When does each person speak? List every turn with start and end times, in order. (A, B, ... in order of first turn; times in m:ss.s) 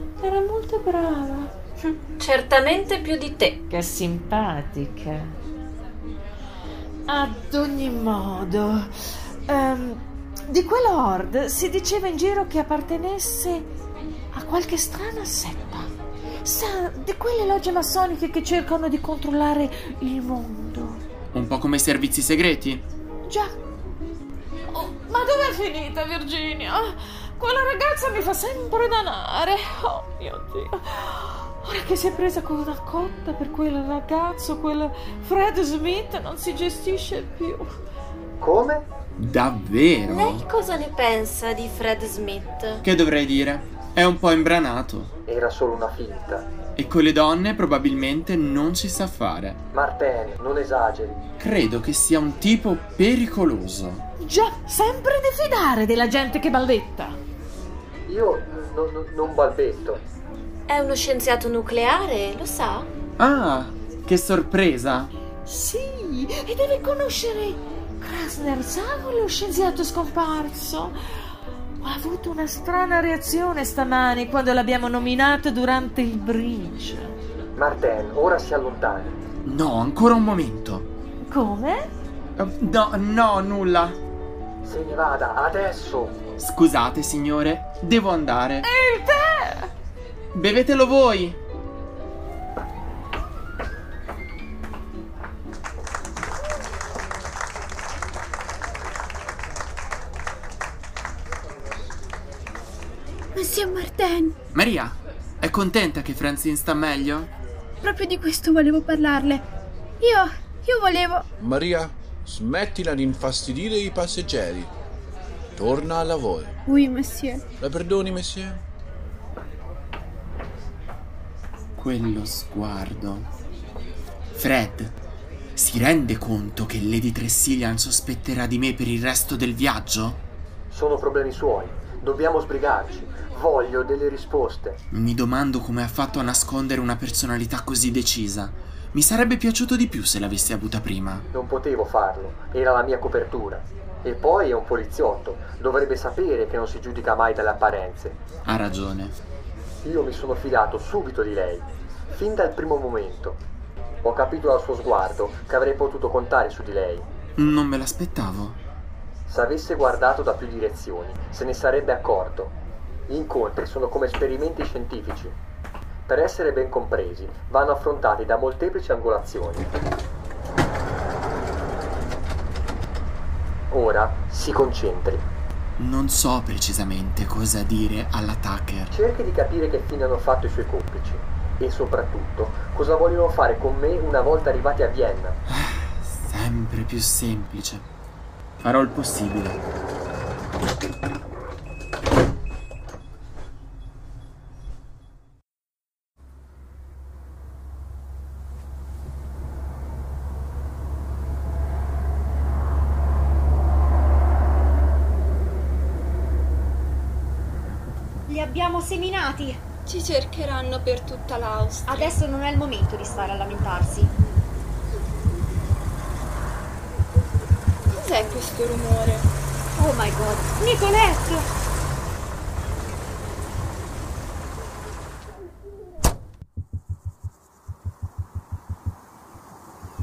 0:00.2-0:01.5 A
0:01.8-0:03.6 B
0:03.6-0:05.4 A
0:07.1-0:08.9 A
0:09.5-0:13.7 A
0:14.3-0:15.9 A
0:16.4-0:21.0 A
0:21.3-0:22.8 C
0:23.3-0:23.6 A
0:24.7-0:37.7 A
0:38.4-0:38.9 D
0:39.2-0:40.5 C
0:40.1-0:42.8 B
0:42.8-0:45.1 C
0:45.3-0:46.5 D
0:46.8-0:49.6 C
0:49.7-0:51.2 D
0:51.4-0:54.0 C
0:54.2-0:57.2 A
0:58.1-1:00.0 D
1:00.7-1:02.9 B
1:03.2-1:05.1 C
1:05.5-1:11.0 A
1:11.8-1:17.1 A
1:17.6-1:19.2 D
1:19.4-1:20.9 C
1:21.2-1:21.9 A
1:22.4-1:24.0 C
1:24.6-1:26.2 D
1:26.4-1:28.7 C
1:28.6-1:29.7 A
1:30.3-1:31.4 C
1:43.4-1:44.4 E
1:44.5-1:47.3 C
1:47.8-1:49.4 E
1:50.0-1:51.2 E
1:51.4-1:54.7 F
1:55.6-1:56.6 F
1:56.7-1:57.4 E
1:57.6-1:58.6 F
2:01.8-2:03.3 C
2:04.3-2:05.0 C
2:05.6-2:10.2 C
2:10.7-2:14.8 D
2:14.9-2:21.3 C
2:21.3-2:28.2 D
2:28.5-2:29.2 C
2:29.8-2:33.4 D
2:34.0-2:37.1 D
2:37.4-2:38.6 C
2:39.3-2:42.6 D
2:43.1-2:45.4 D
2:46.1-2:49.7 D
2:53.7-2:55.3 D
2:55.8-2:58.9 C
2:58.9-3:05.4 D
3:05.5-3:07.9 C
3:08.6-3:09.6 C
3:28.3-3:29.6 G
3:29.9-3:32.2 H
3:31.9-3:34.2 G
3:37.9-3:39.3 H
3:39.8-3:41.5 G